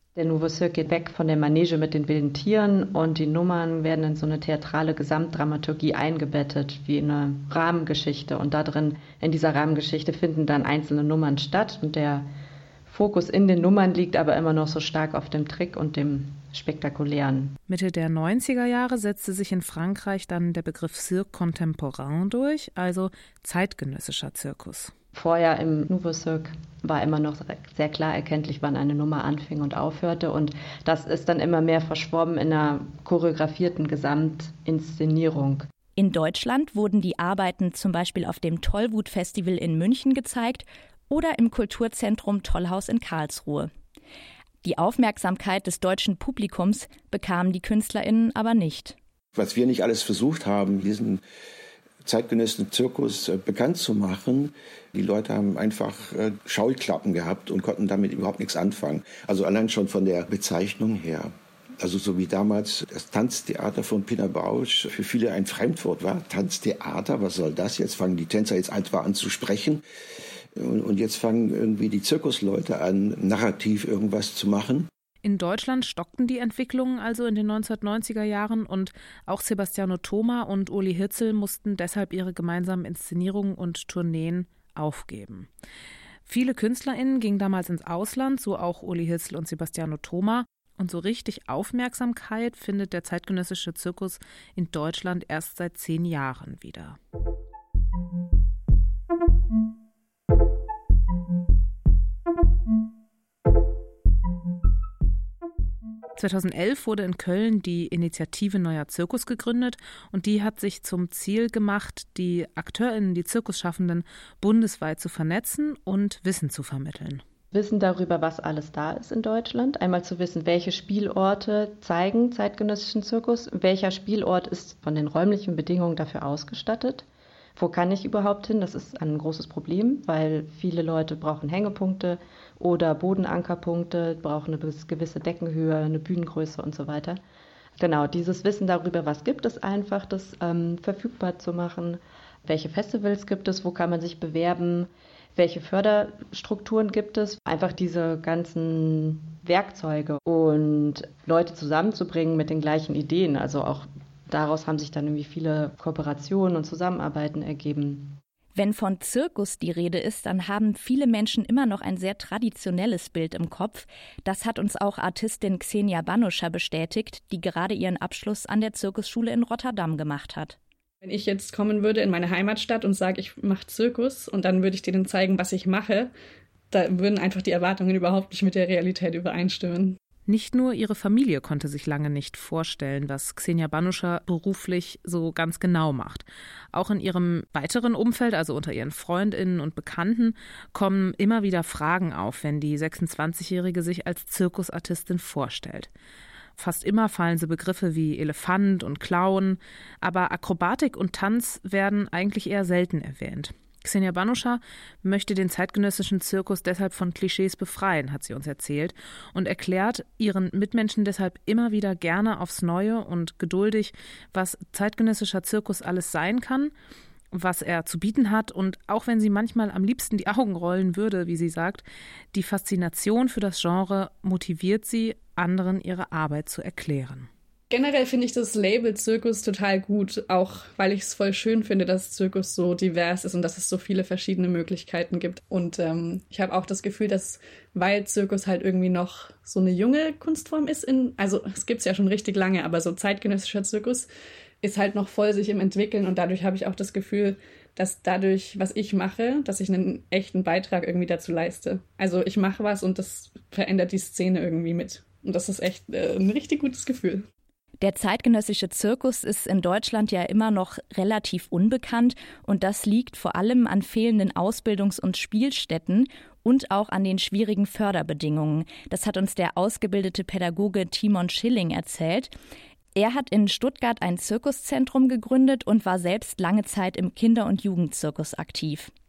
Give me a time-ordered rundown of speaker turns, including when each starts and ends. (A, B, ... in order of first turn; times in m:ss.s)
0:00.2-0:12.3 A
0:12.9-0:17.6 A
0:17.7-0:24.9 B
0:25.1-0:35.7 A
0:36.0-0:43.7 C
0:44.6-0:49.0 C
0:49.3-0:51.2 D
0:52.0-1:09.8 D
1:10.5-1:14.9 D
1:15.2-1:25.5 B
1:26.3-1:37.0 B
1:46.2-1:57.2 B
1:57.5-2:07.0 A
2:07.6-2:17.2 A
2:17.8-2:38.2 A
2:38.6-2:50.6 C
2:51.0-2:56.1 E
2:56.7-3:00.0 E
3:00.3-3:15.9 B
3:16.6-3:36.7 B
3:37.3-3:47.3 B
3:47.7-4:04.1 E
4:04.6-4:17.3 E
4:17.8-4:32.3 C
4:33.0-4:38.9 C